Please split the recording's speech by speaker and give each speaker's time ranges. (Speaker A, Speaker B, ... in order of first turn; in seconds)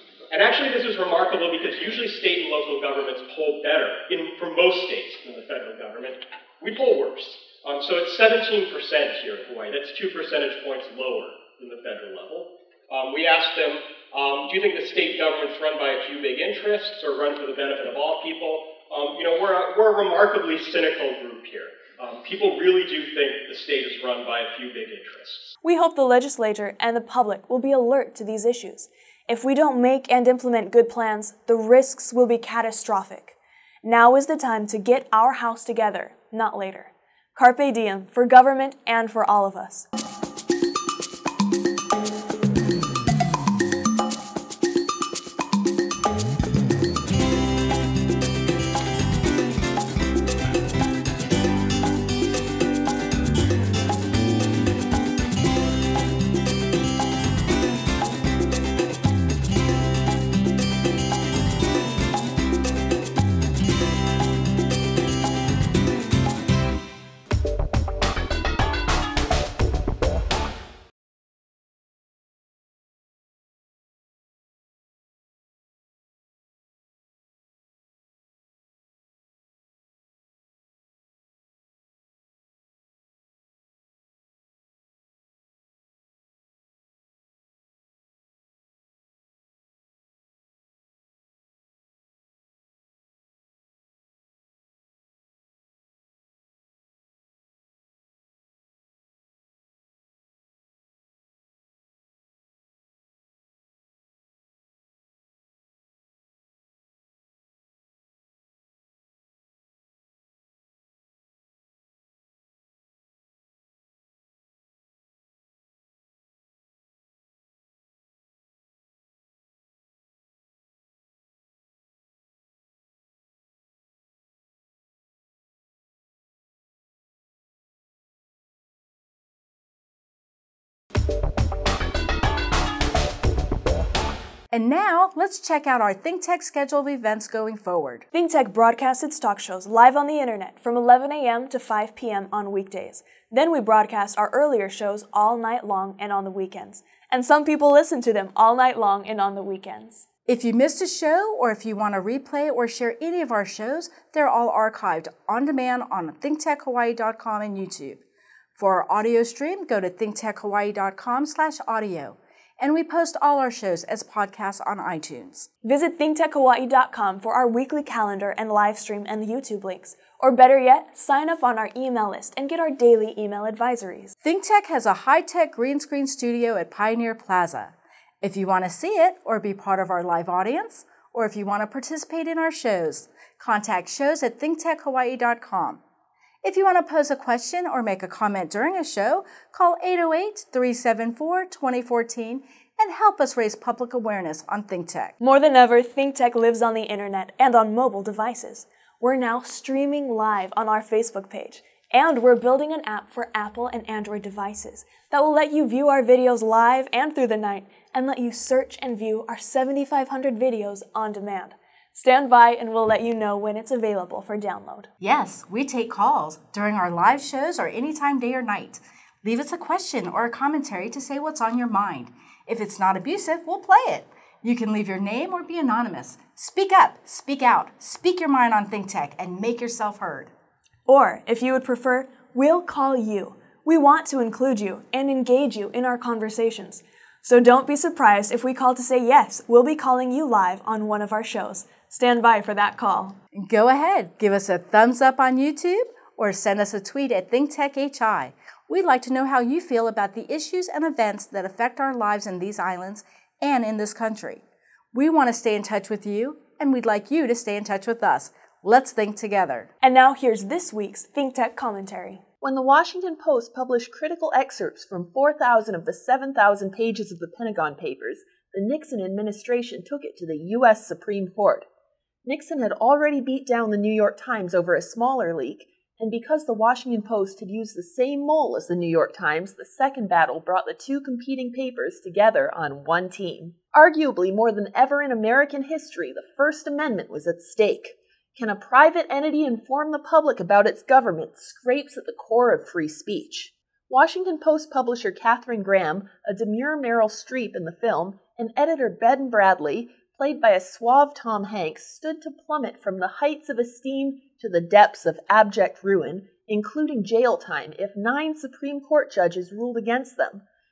Speaker A: 0.3-25.5
Speaker B: 25.6-39.9, 138.1-150.0, 165.6-174.2, 195.2-214.9, 230.9-243.2, 259.8-262.2
Speaker C: 134.5-138.0, 150.2-158.0, 158.6-165.5, 174.2-185.8, 186.4-195.1, 215.0-230.3, 243.3-259.7
Speaker D: 262.4-271.6, 272.2-310.4